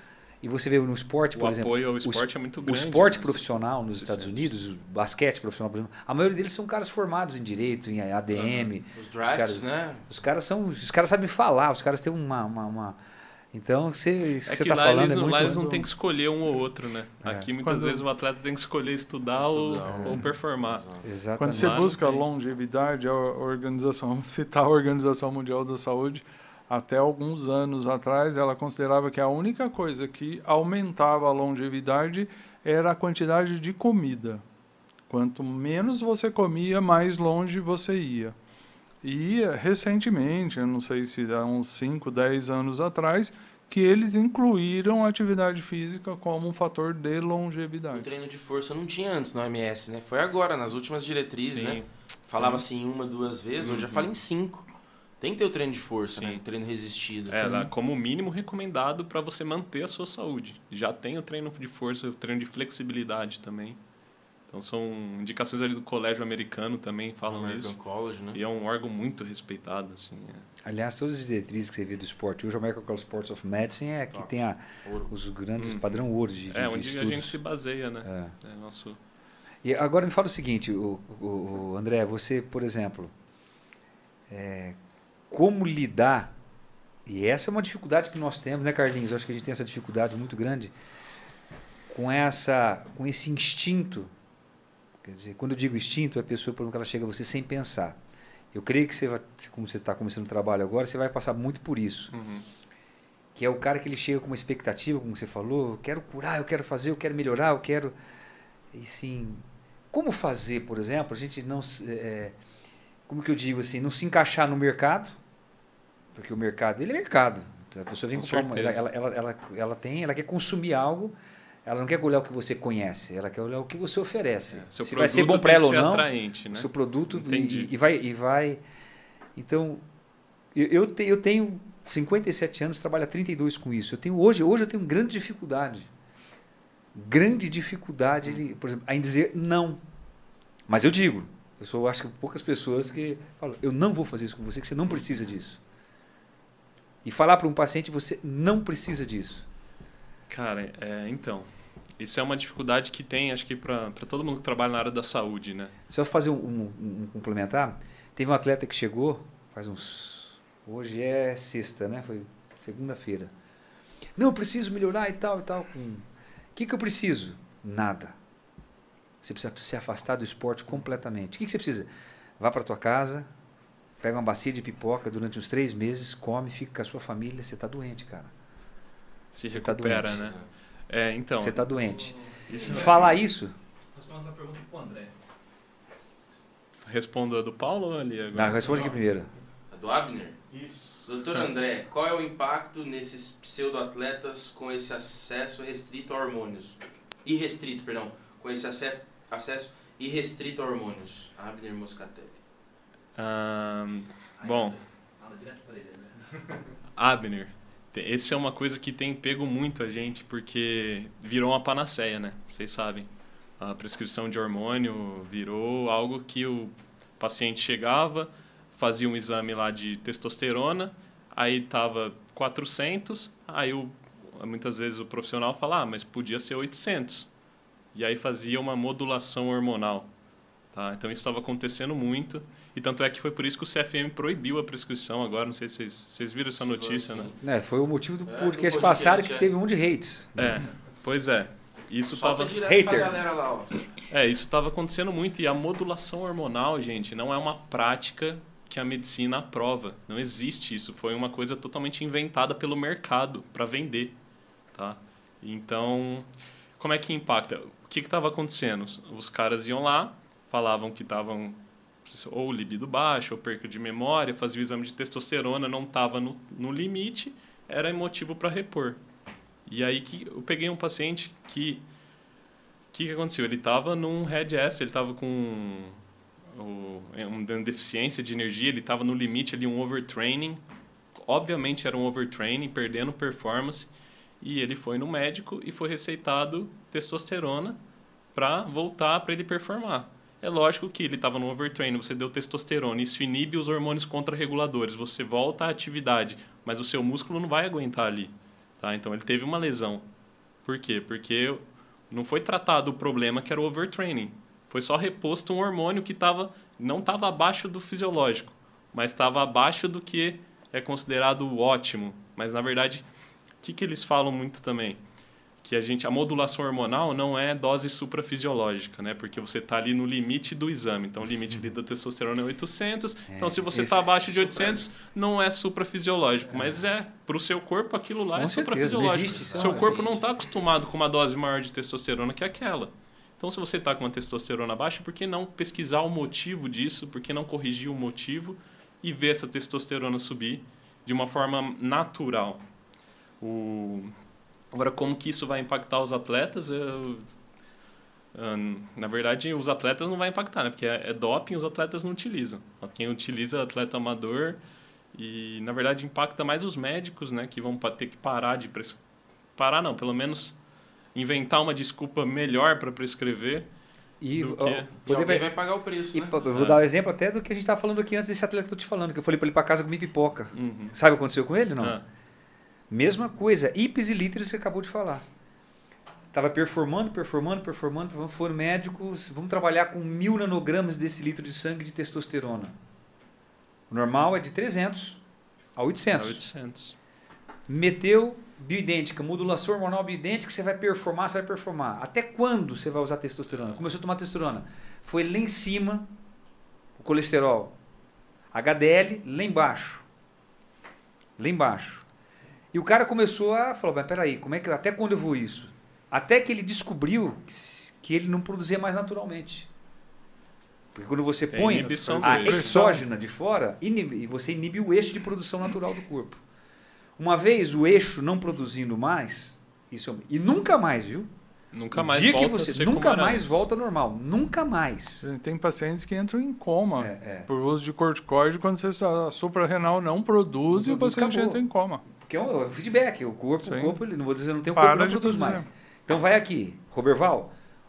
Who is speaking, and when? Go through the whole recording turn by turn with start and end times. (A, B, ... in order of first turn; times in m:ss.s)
0:00.4-0:13.0 A
0:01.3-0:04.5 B
0:08.3-0:08.7 B
0:08.9-0:10.0 C
0:13.5-0:15.9 A
0:14.5-0:20.8 B
0:17.2-0:17.5 A
0:17.6-0:18.0 D
0:19.4-0:21.1 C
0:19.8-0:20.2 A
0:21.0-0:21.9 A
0:21.4-0:34.4 D
0:21.4-0:22.2 B
0:35.1-0:38.3 D
0:39.0-0:48.1 D
0:47.9-0:54.7 C
0:51.4-0:52.6 B
0:53.6-0:54.1 B
0:55.2-0:57.4 C
0:56.0-0:56.4 B
0:57.3-1:03.8 B
0:57.3-0:57.7 D
1:04.5-1:07.7 B
1:07.2-1:08.4 C
1:08.3-1:10.4 B
1:10.6-1:17.4 A
1:14.1-1:15.1 C
1:15.6-1:15.9 B
1:16.5-1:19.0 B
1:18.0-1:18.3 A
1:19.6-1:23.1 A
1:24.3-1:24.8 A
1:25.3-1:26.3 A
1:27.0-1:30.7 A
1:31.9-1:34.1 A
1:35.0-1:38.0 A
1:38.5-1:42.1 A
1:42.1-1:42.4 B
1:43.3-1:47.9 A
1:48.7-1:52.4 A
1:53.1-1:55.2 A
1:56.1-2:08.6 A
1:58.1-1:58.8 B
2:04.5-2:07.7 B
2:09.3-2:09.8 A
2:10.5-2:15.9 A
2:16.9-2:19.8 A
2:20.7-2:25.6 A
2:27.0-2:29.4 A
2:30.3-2:31.5 B
2:32.0-2:35.7 B
2:35.9-2:43.3 A
2:44.2-2:48.2 A
2:49.2-2:53.3 A
2:54.0-2:58.3 A
2:59.3-3:00.4 B
2:59.5-3:00.2 A
3:00.1-3:00.5 C
3:00.9-3:01.7 B
3:01.3-3:03.5 A
3:01.8-3:03.0 E
3:02.5-3:03.1 B
3:03.9-3:05.1 E
3:06.8-3:09.0 B
3:08.3-3:09.3 A
3:09.7-3:10.4 C
3:10.5-3:11.0 E
3:11.0-3:22.4 C
3:23.2-3:24.8 B
3:24.4-3:26.4 E
3:27.0-3:33.1 B
3:33.6-3:47.3 B
3:47.9-3:50.1 B
3:50.7-3:57.3 B
3:56.6-3:57.4 C
3:57.4-4:00.6 A
3:58.2-3:59.5 C
4:00.4-4:02.6 B
4:02.1-4:03.8 C
4:02.6-4:03.2 A
4:04.1-4:14.1 B
4:14.7-4:29.0 B
4:29.6-4:31.8 B
4:32.9-4:36.0 B
4:36.5-4:40.6 B
4:41.2-4:47.8 B
4:48.3-5:00.0 B
5:00.6-5:13.0 B
5:13.6-5:15.0 B
5:15.6-5:42.6 B
5:23.3-5:24.9 A
5:26.5-5:26.9 A
5:28.3-5:30.2 A
5:29.0-5:30.2 C
5:43.4-5:44.1 B
5:44.7-5:47.2 B
5:48.3-5:54.6 B
5:55.1-5:59.0 B
5:59.6-6:00.6 B
6:01.1-6:03.7 B
6:04.2-6:05.5 A
6:04.3-6:04.9 B
6:05.0-6:06.4 C
6:06.1-6:12.0 A
6:06.5-6:06.8 B
6:10.5-6:11.0 B
6:11.8-6:12.0 B
6:12.9-6:15.2 A
6:16.3-6:22.7 A
6:23.9-6:25.2 A
6:25.8-6:26.4 A
6:26.1-6:27.0 B
6:27.7-6:36.1 A
6:37.0-6:37.8 A
6:38.5-6:40.0 A
6:41.4-6:42.0 A
6:42.7-6:49.7 A
6:50.9-6:56.4 A
6:51.5-6:52.9 B
6:51.7-6:53.0 D
6:57.2-7:01.3 A
7:01.7-7:03.6 B
7:01.9-7:05.2 A
7:05.2-7:12.0 D
7:07.0-7:07.5 A
7:10.7-7:17.5 A
7:13.6-7:14.0 D
7:14.7-7:15.7 D